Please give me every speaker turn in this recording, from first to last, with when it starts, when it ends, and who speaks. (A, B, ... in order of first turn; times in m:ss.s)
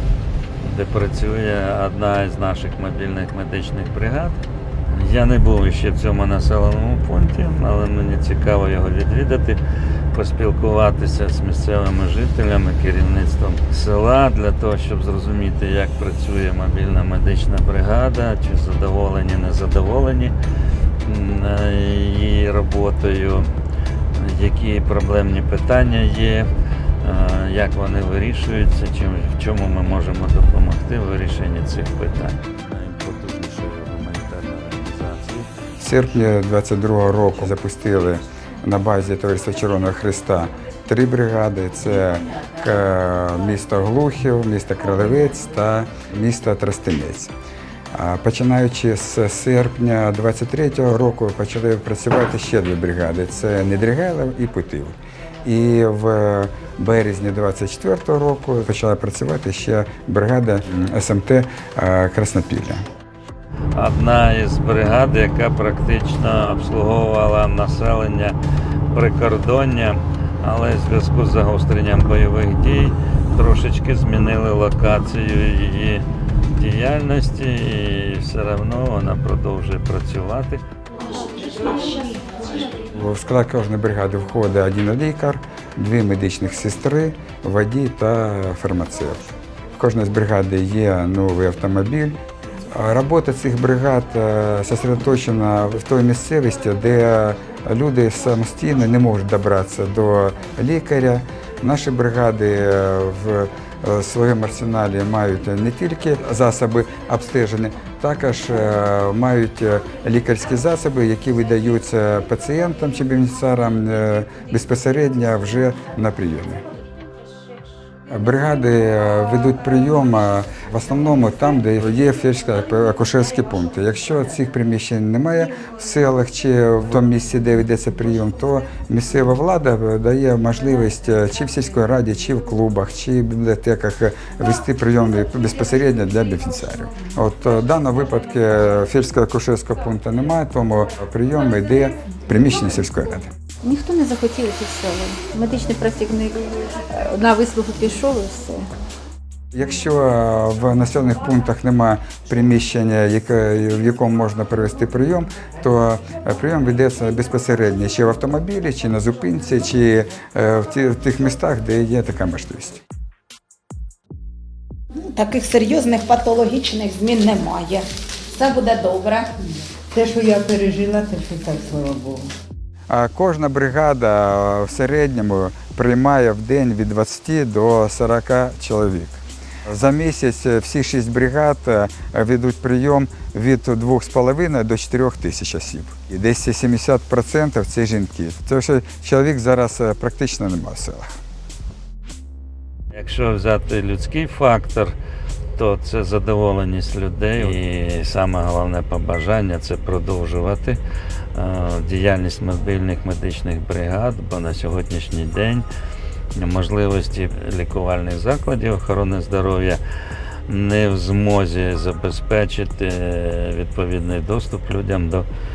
0:00.6-0:09.6 A
0:10.1-0:20.3 A
0:21.0-0:23.5 A
0:24.2-0:26.5 A
0:27.0-0:35.5 A
0:35.8-0:47.3 B
0:47.9-1:02.9 B
1:03.8-1:08.4 A
1:08.9-1:20.6 A
1:21.2-1:22.2 C
1:22.9-1:29.2 B
1:29.8-1:32.2 B
1:32.7-1:56.6 B
1:58.1-2:23.3 B
2:23.6-2:28.7 D
2:29.5-2:42.8 B
2:45.0-2:49.3 C
2:49.9-2:52.3 E
2:52.9-3:11.1 B
3:12.9-3:15.0 A
3:15.6-3:20.8 A
3:21.3-3:25.7 A
3:26.4-3:29.8 A
3:30.5-3:35.3 A